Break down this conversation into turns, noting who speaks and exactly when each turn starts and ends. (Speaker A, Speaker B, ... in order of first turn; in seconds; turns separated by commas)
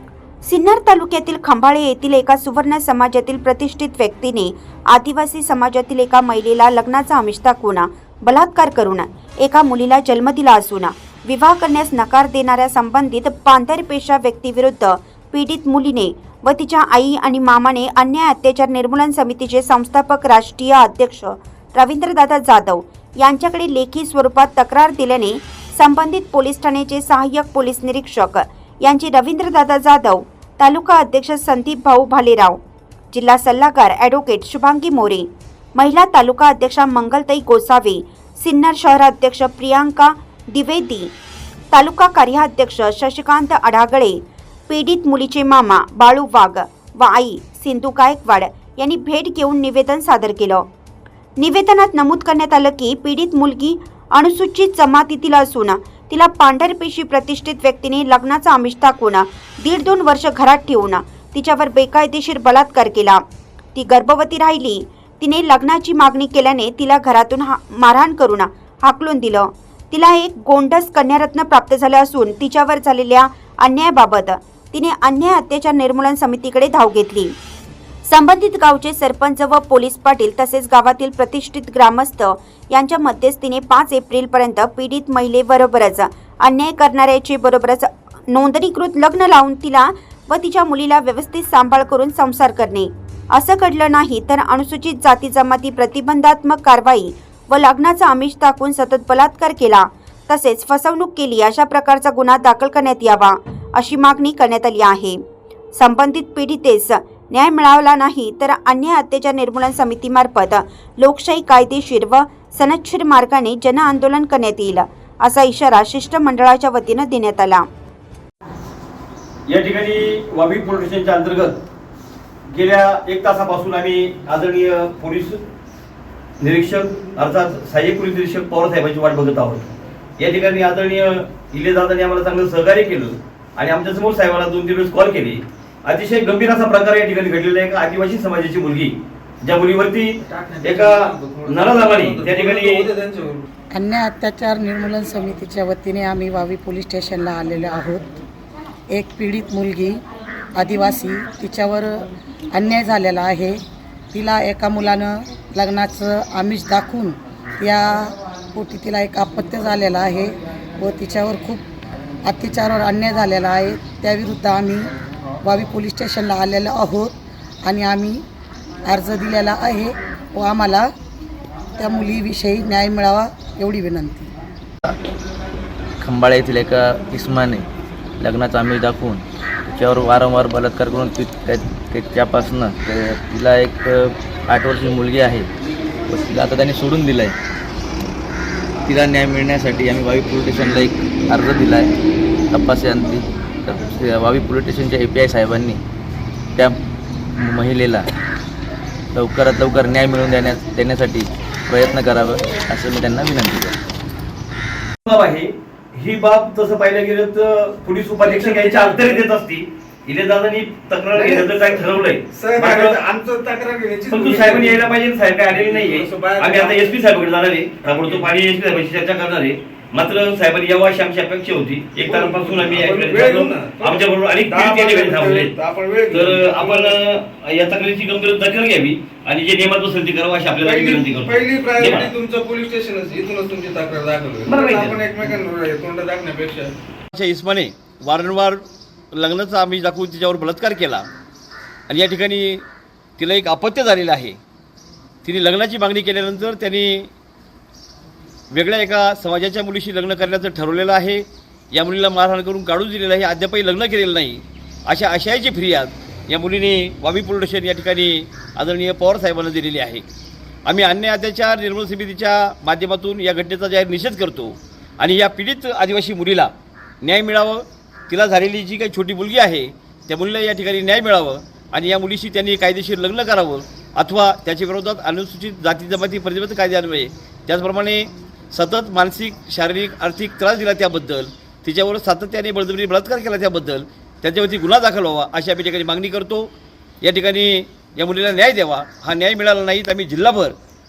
Speaker A: 0.4-32.6, Speaker A: 33.1-41.1, Speaker A: 41.7-50.6, Speaker A: 51.4-63.2, Speaker A: 63.8-77.3, Speaker A: 78.1-105.2, Speaker A: 105.8-117.7, Speaker B: 119.5-121.6, Speaker B: 122.5-125.4, Speaker B: 126.4-142.9, Speaker C: 140.3-143.5, Speaker D: 143.7-148.1, Speaker D: 148.9-150.0, Speaker D: 150.6-153.6, Speaker D: 154.1-161.7, Speaker D: 162.2-164.9, Speaker D: 165.4-168.2, Speaker D: 168.9-170.9, Speaker D: 171.8-174.3, Speaker E: 176.0-177.7, Speaker E: 178.2-185.5, Speaker E: 186.1-187.4, Speaker E: 188.8-191.9, Speaker E: 192.5-195.8, Speaker E: 197.4-198.1, Speaker E: 199.1-203.8, Speaker B: 205.1-213.0, Speaker C: 208.2-209.2, Speaker C: 211.1-211.8, Speaker C: 212.3-214.8, Speaker B: 214.1-225.5, Speaker C: 215.5-217.0, Speaker C: 218.0-218.3, Speaker C: 222.0-227.0, Speaker B: 226.1-232.1, Speaker C: 230.6-236.7, Speaker B: 234.4-235.3, Speaker B: 237.1-241.1, Speaker B: 241.9-242.6, Speaker B: 243.2-244.4, Speaker B: 245.2-247.1, Speaker B: 248.5-260.0, Speaker B: 260.7-286.5, Speaker B: 287.0-290.6